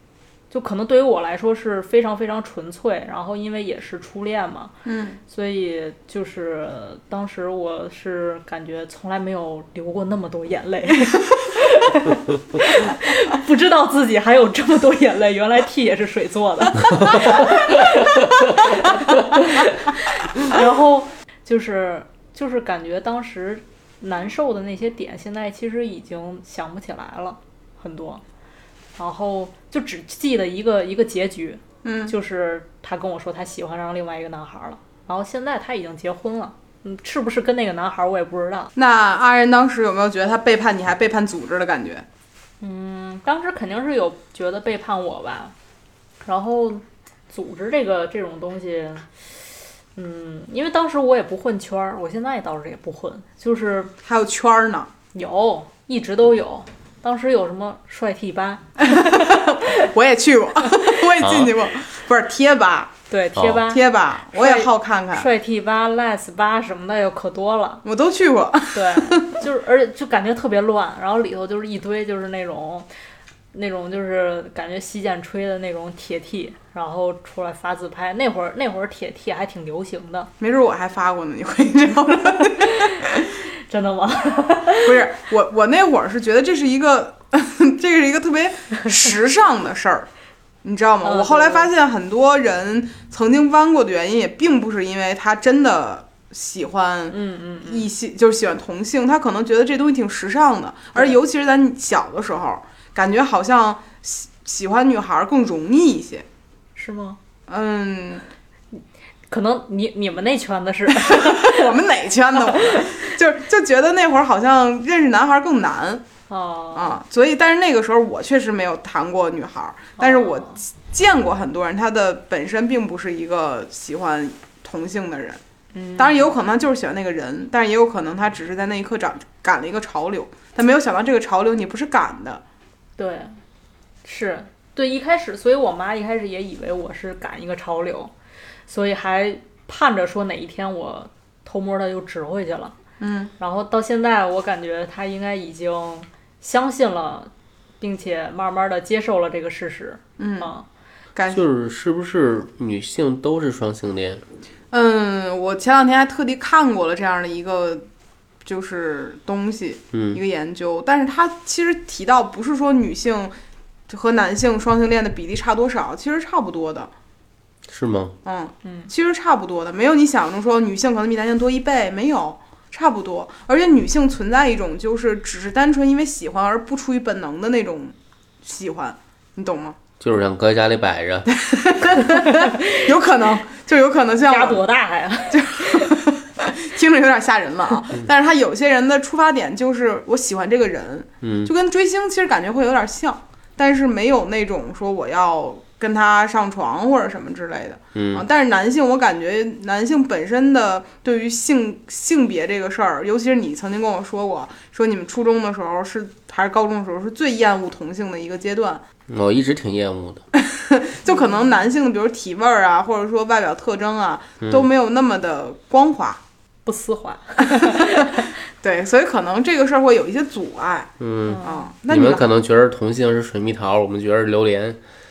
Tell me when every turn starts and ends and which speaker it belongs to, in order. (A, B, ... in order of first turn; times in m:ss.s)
0:00.5-0:04.8 A
0:04.8-0:05.2 B
0:05.3-0:28.2 A
0:29.0-0:38.7 A
0:31.8-0:32.2 B
0:38.8-0:42.0 B
0:42.6-0:45.5 A
0:46.2-0:49.1 A
0:50.0-0:53.9 A
0:54.0-0:54.9 B
0:55.1-0:59.9 A
0:58.8-1:02.9 B
1:00.7-1:01.1 A
1:01.2-1:01.5 C
1:03.1-1:07.8 A
1:03.6-1:05.3 B
1:07.8-1:09.4 B
1:08.7-1:12.9 A
1:13.5-1:20.3 A
1:20.4-1:23.2 B
1:22.6-1:25.0 A
1:24.8-1:30.1 B
1:30.6-1:46.3 B
1:31.0-1:31.7 A
1:37.1-1:37.9 A
1:46.8-1:47.2 A
1:47.5-1:48.2 B
1:49.3-1:51.7 A
1:51.0-1:56.0 B
1:52.4-1:52.9 A
1:56.3-1:57.0 A
1:56.8-2:05.4 B
2:00.0-2:00.6 A
2:05.7-2:06.3 A
2:06.0-2:12.4 B
2:13.0-2:13.4 A
2:14.0-2:18.1 A
2:18.7-2:22.8 A
2:23.0-2:23.3 B
2:23.4-2:30.7 A
2:30.2-2:30.5 B
2:31.2-2:31.4 B
2:31.3-2:34.2 C
2:34.7-2:37.9 B
2:38.4-2:43.4 B
2:39.9-2:40.2 C
2:43.9-2:46.9 B
2:47.7-2:48.2 C
2:48.2-2:59.8 B
2:48.6-2:48.9 A
3:00.0-3:01.3 C
3:01.3-3:04.6 B
3:02.1-3:02.9 A
3:04.2-3:06.0 A
3:05.3-3:28.8 B
3:11.2-3:11.5 C
3:18.0-3:18.3 C
3:29.1-3:30.2 C
3:30.4-3:36.2 B
3:31.1-3:31.7 A
3:34.4-3:34.7 C
3:36.7-3:38.3 A
3:37.6-3:38.0 B
3:38.6-3:40.9 B
3:41.0-3:44.8 C
3:41.3-3:41.7 A
3:41.4-3:42.3 B